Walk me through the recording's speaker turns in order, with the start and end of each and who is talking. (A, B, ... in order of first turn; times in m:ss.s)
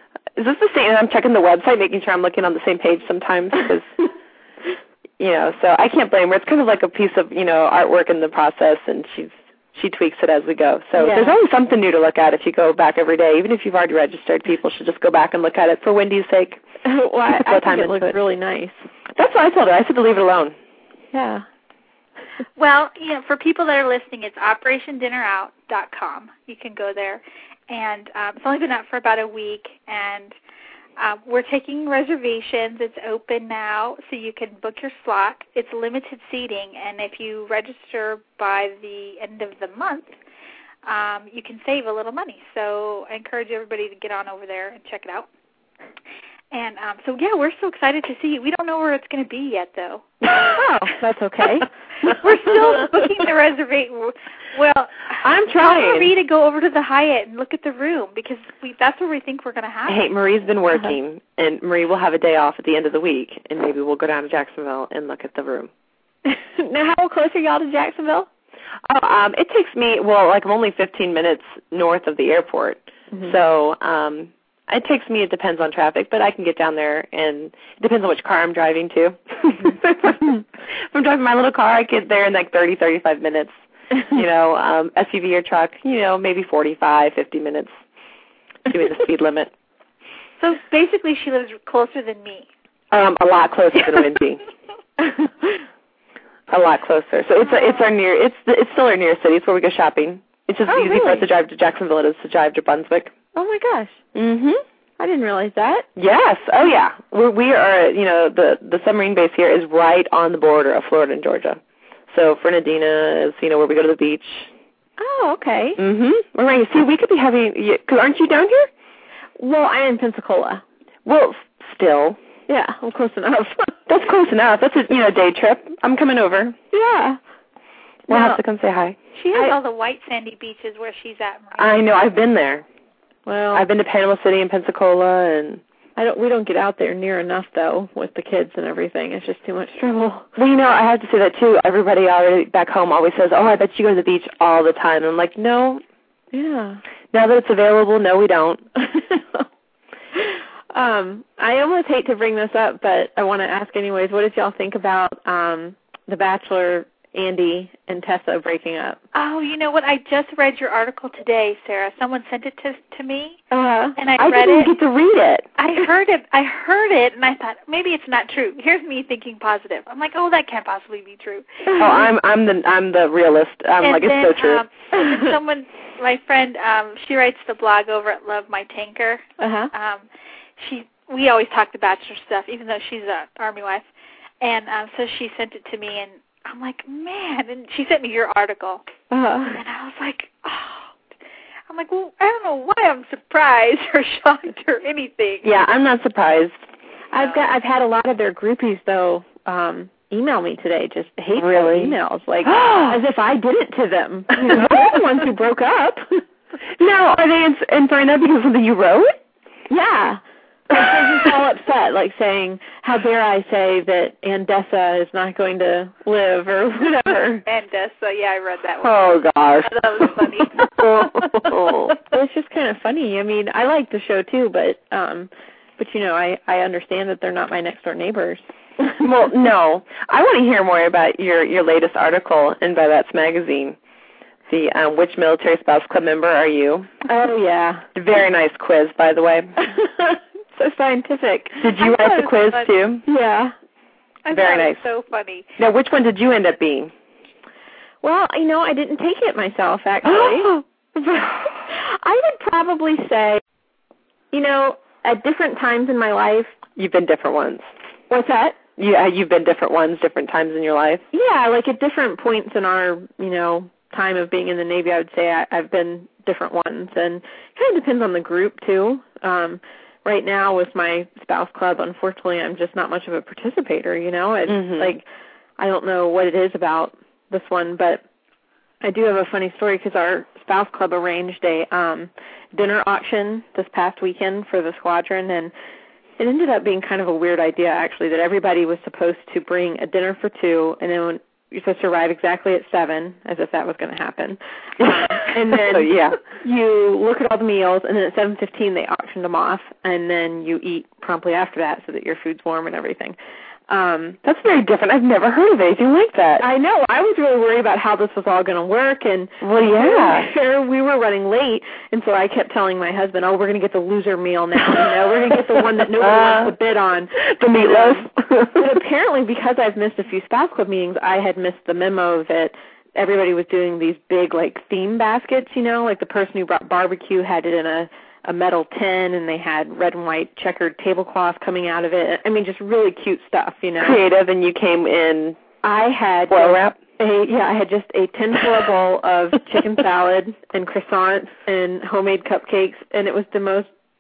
0:00.4-0:03.9 A
0:05.2-0:16.6 A
0:11.0-0:11.4 B
0:16.8-0:18.8 B
0:17.3-0:18.2 A
0:19.2-0:20.6 A
0:21.1-0:21.4 B
0:22.6-0:30.4 C
0:31.0-0:40.2 C
0:40.8-0:45.3 C
0:46.5-0:50.1 C
0:50.3-0:52.2 B
0:52.1-1:00.0 C
0:55.2-0:56.1 A
0:59.9-1:05.7 A
1:06.3-1:08.3 B
1:08.9-1:23.6 A
1:24.1-1:27.7 A
1:28.7-1:29.5 A
1:30.4-1:32.5 C
1:32.9-1:34.4 A
1:35.0-1:35.5 B
1:36.5-1:43.1 A
1:37.5-1:37.8 C
1:40.7-1:41.3 B
1:43.4-1:44.0 B
1:44.2-1:44.6 A
1:45.0-1:45.9 B
1:46.0-1:54.5 A
1:55.0-1:55.8 B
1:55.8-1:58.7 A
1:59.4-2:00.6 B
2:01.0-2:02.2 A
2:02.5-2:03.8 B
2:03.9-2:06.6 A
2:06.7-2:07.2 B
2:08.1-2:08.4 B
2:08.1-2:09.0 A
2:09.1-2:11.8 C
2:11.6-2:12.7 A
2:13.3-2:13.7 B
2:13.5-2:15.6 A
2:16.0-2:20.3 B
2:20.4-2:25.8 A
2:26.3-2:26.8 B
2:27.1-2:28.6 A
2:28.8-2:29.4 B
2:30.1-2:39.0 B
2:39.1-2:43.4 C
2:43.5-2:44.0 B
2:44.0-2:44.7 C
2:44.2-2:45.5 A
2:45.6-2:51.7 C
2:51.7-2:52.0 B
2:51.8-2:54.6 A
2:53.8-3:00.1 C
2:59.4-2:59.7 B
3:00.6-3:03.9 C
3:04.4-3:08.8 C
3:09.1-3:09.6 B
3:09.5-3:11.0 C
3:11.7-3:15.5 C
3:15.4-3:16.6 A
3:17.1-3:26.2 B
3:17.2-3:17.5 C
3:21.4-3:23.0 A
3:24.4-3:25.0 A
3:26.8-3:29.2 A
3:29.7-3:37.4 B
3:37.4-3:40.8 C
3:38.8-3:42.0 A
3:42.0-3:49.1 B
3:49.0-3:53.8 A
3:54.5-3:56.9 A
3:57.1-3:57.9 B
3:58.0-3:59.6 A
3:59.6-4:01.6 B
4:01.6-4:03.0 A
4:01.8-4:02.7 C
4:03.1-4:03.5 B
4:04.2-4:05.5 C
4:04.3-4:04.8 A
4:05.6-4:06.9 A
4:08.0-4:13.4 B
4:10.0-4:10.6 A
4:14.3-4:16.6 B
4:16.8-4:17.6 A
4:18.1-4:18.6 B
4:18.8-4:21.0 A
4:21.1-4:35.0 B
4:34.5-4:34.9 A
4:35.6-4:38.0 B
4:38.8-4:45.5 B
4:46.2-5:03.2 B
4:54.8-4:56.2 A
5:03.7-5:04.2 B
5:04.2-5:06.5 A
5:06.4-5:34.0 B
5:09.4-5:10.3 A
5:14.7-5:16.5 A
5:17.3-5:18.8 A
5:33.8-5:35.4 A
5:35.6-5:43.7 B
5:36.3-5:36.8 A